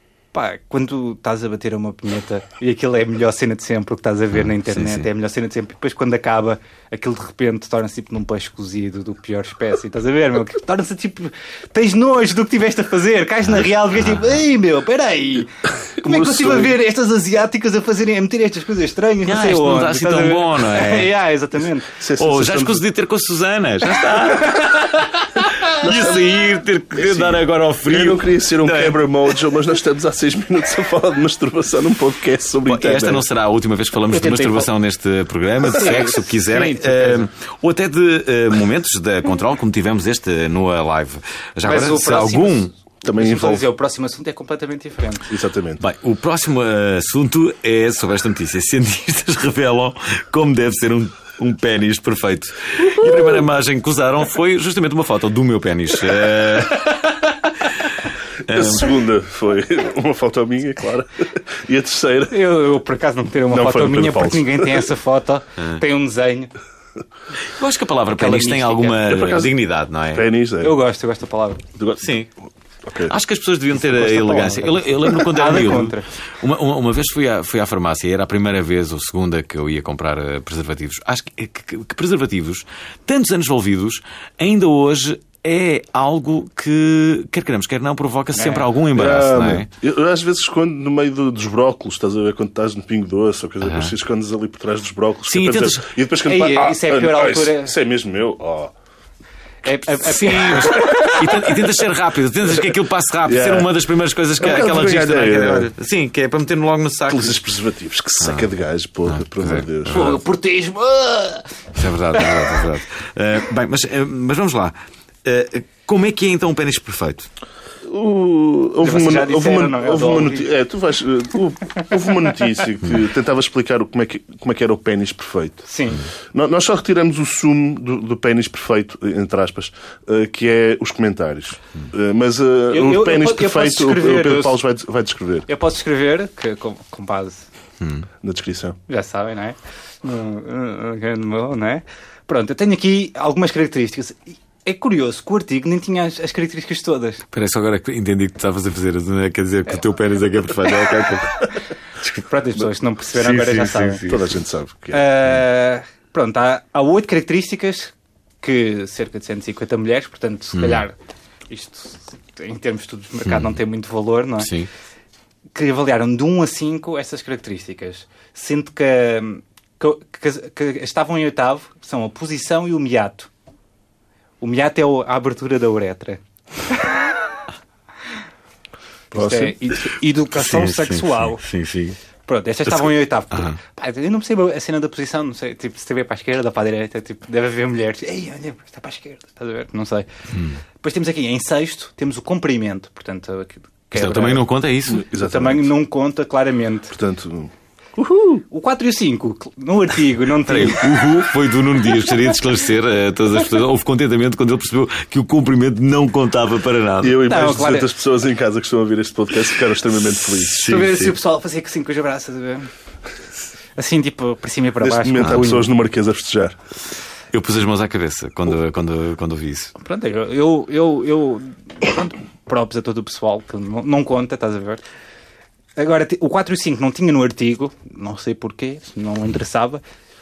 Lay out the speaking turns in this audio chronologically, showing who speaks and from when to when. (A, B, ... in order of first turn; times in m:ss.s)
0:00.3-0:21.9 A
0:04.4-0:05.1 B
0:16.0-0:16.8 C
0:19.2-0:21.1 B
0:22.0-0:22.8 C
0:22.2-0:29.0 B
0:24.4-0:24.7 A
0:25.8-0:26.3 C
0:27.0-0:33.2 C
0:32.7-0:42.7 B
0:34.1-0:34.7 A
0:35.7-0:37.3 A
0:41.6-0:45.2 A
0:43.0-0:43.6 C
0:45.3-0:45.8 C
0:45.8-0:59.0 B
0:58.4-1:02.4 C
1:02.3-1:06.5 A
1:03.5-1:04.9 C
1:07.5-1:10.3 B
1:08.1-1:09.1 A
1:09.0-1:09.5 C
1:10.1-1:10.8 C
1:10.6-1:11.6 A
1:11.8-1:12.1 C
1:12.0-1:12.3 B
1:12.8-1:13.1 C
1:13.0-1:29.7 B
1:14.0-1:16.1 A
1:28.3-1:28.6 A
1:28.9-1:38.7 C
1:33.6-1:33.9 B
1:35.2-1:35.8 B
1:36.2-1:37.7 A
1:39.6-1:41.2 A
1:40.0-1:41.6 C
1:41.1-1:47.4 B
1:43.2-1:43.7 C
1:44.4-1:45.7 C
1:47.1-1:50.1 C
1:48.2-1:48.5 B
1:49.1-1:50.2 B
1:49.9-1:51.5 A
1:51.7-1:57.3 B
1:52.1-1:52.6 A
1:57.8-2:05.6 C
1:58.8-2:00.5 A
2:05.6-2:06.0 A
2:06.3-2:15.5 C
2:12.7-2:14.6 A
2:15.5-2:17.5 A
2:17.8-2:18.1 B
2:18.2-2:18.8 C
2:18.9-2:27.2 A
2:27.3-2:32.2 B
2:32.2-2:34.0 A
2:33.1-2:34.3 B
2:34.0-2:35.2 C
2:34.9-2:40.9 A
2:40.5-2:40.8 B
2:41.5-2:44.5 A
2:43.2-2:43.6 B
2:44.4-2:44.7 B
2:45.5-2:53.3 A
2:54.4-2:57.0 A
2:59.1-3:01.4 A
2:59.1-2:59.5 C
3:00.3-3:02.0 B
3:02.3-3:10.1 A
3:02.7-3:03.6 B
3:10.3-3:10.6 B
3:10.8-3:14.4 A
3:13.9-3:15.1 B
3:14.9-3:15.7 C
3:15.2-3:16.9 A
3:16.9-3:18.4 C
3:18.5-3:21.0 A
3:20.4-3:27.3 B
3:27.0-3:30.6 C
3:27.2-3:27.9 A
3:30.4-3:31.2 B
3:30.6-3:32.7 A
3:33.8-3:35.7 A
3:34.8-3:36.6 C
3:35.2-3:35.6 B
3:37.3-3:39.7 B
3:39.8-3:44.8 A
3:45.8-3:49.8 A